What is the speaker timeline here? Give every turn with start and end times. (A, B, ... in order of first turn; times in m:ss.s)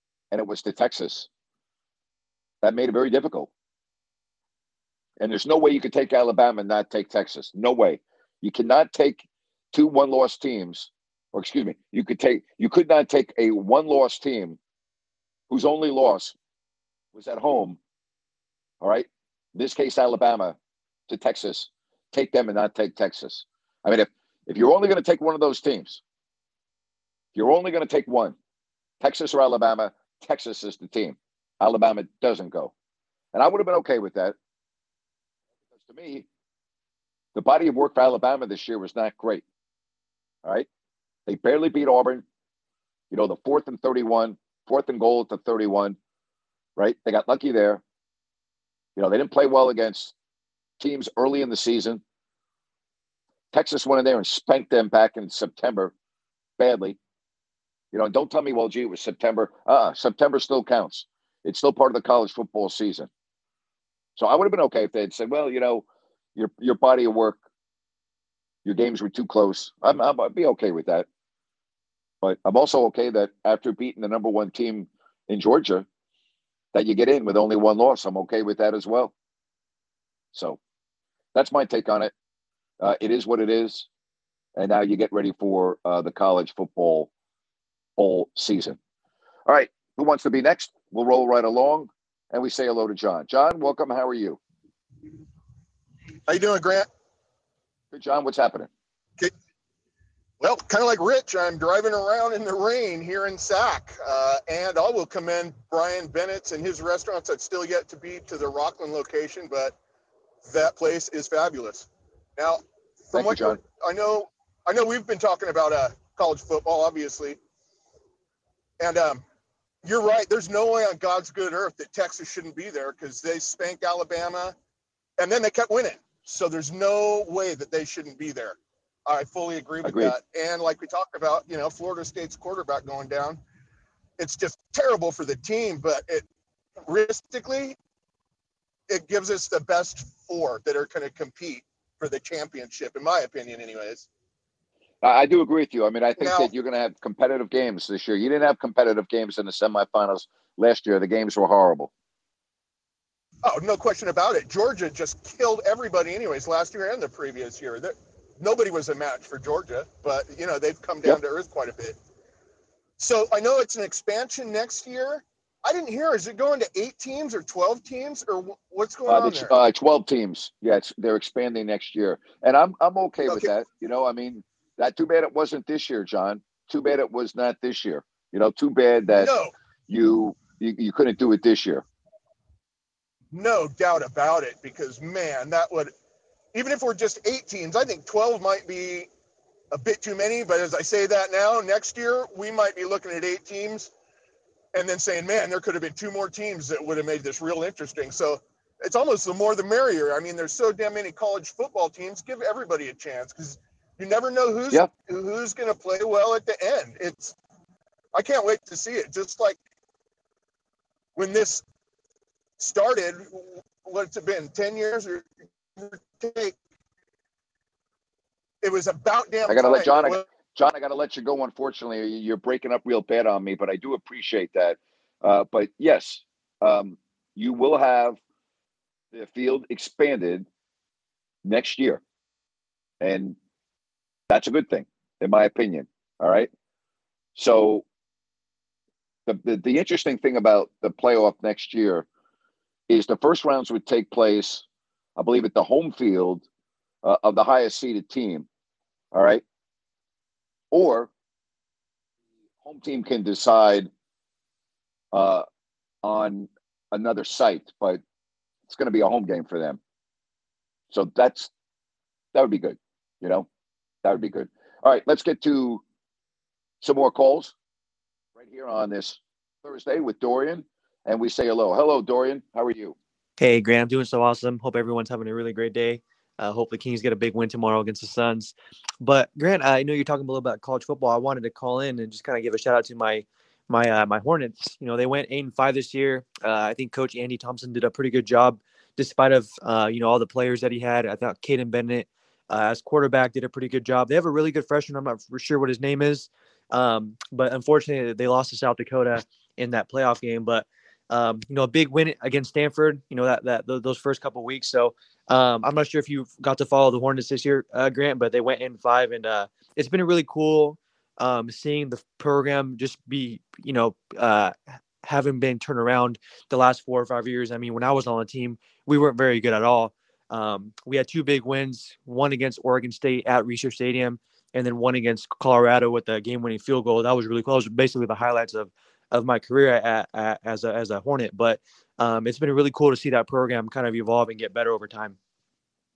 0:00.3-0:01.3 A
0:02.6-0:03.5 A
0:05.2-0:14.6 A
0:15.5-0:16.3 A
0:17.1-0:17.8 A
0:18.8-0:20.6 A
0:21.1-0:26.0 A
0:27.3-0:28.4 A
0:29.0-0:32.7 A
0:33.3-0:34.4 A
0:35.7-0:36.2 A
0:37.3-0:39.4 A
0:41.3-0:42.2 A
0:43.1-0:46.0 A
0:46.8-0:47.8 A
0:49.0-0:50.1 A
0:50.8-0:52.0 A
0:53.5-0:55.9 A
0:56.6-0:57.0 A
0:57.9-1:03.1 A
1:04.2-1:07.4 A
1:08.6-1:11.1 A
1:12.2-1:15.9 A
1:16.7-1:19.1 A
1:20.3-1:20.6 A
1:21.3-1:22.1 A
1:22.8-1:23.9 A
1:24.6-1:27.1 A
1:28.0-1:28.8 A
1:29.4-1:34.4 A
1:36.3-1:36.9 B
1:37.9-1:38.7 A
1:40.4-1:49.7 B
1:50.4-1:57.4 B
1:53.1-1:53.6 A
1:58.8-1:59.2 B
1:59.8-2:04.5 B
2:05.2-2:13.4 B
2:09.8-2:10.2 A
2:14.2-2:16.2 B
2:16.8-2:17.8 B
2:18.9-2:24.1 B
2:25.0-2:31.9 A
2:26.2-2:26.5 B
2:33.4-2:42.0 B
2:43.0-2:49.5 B
2:49.0-2:59.3 A
2:59.2-2:59.5 B
2:59.9-3:01.8 A
3:03.3-3:05.9 B
3:06.5-3:09.1 B
3:09.7-3:13.9 B
3:14.7-3:27.3 B
3:28.1-3:29.6 B
3:31.2-3:31.6 B
3:32.6-3:36.5 B
3:38.6-3:40.2 B
3:39.4-3:48.2 A
3:49.1-3:50.4 A
3:51.4-3:52.0 A
3:53.0-3:53.4 A
3:54.3-3:56.5 A
3:57.4-3:57.8 A
3:59.2-4:02.1 A
4:02.9-4:04.6 A
4:05.2-4:06.4 A
4:07.0-4:08.5 A
4:09.1-4:09.4 A
4:10.7-4:11.1 A
4:12.6-4:13.9 A
4:15.1-4:15.4 A
4:16.0-4:18.0 A
4:18.7-4:19.8 A
4:20.9-4:21.5 A
4:22.3-4:23.5 A
4:24.0-4:25.8 A
4:26.8-4:27.5 A
4:28.3-4:33.0 A
4:33.4-5:35.2 C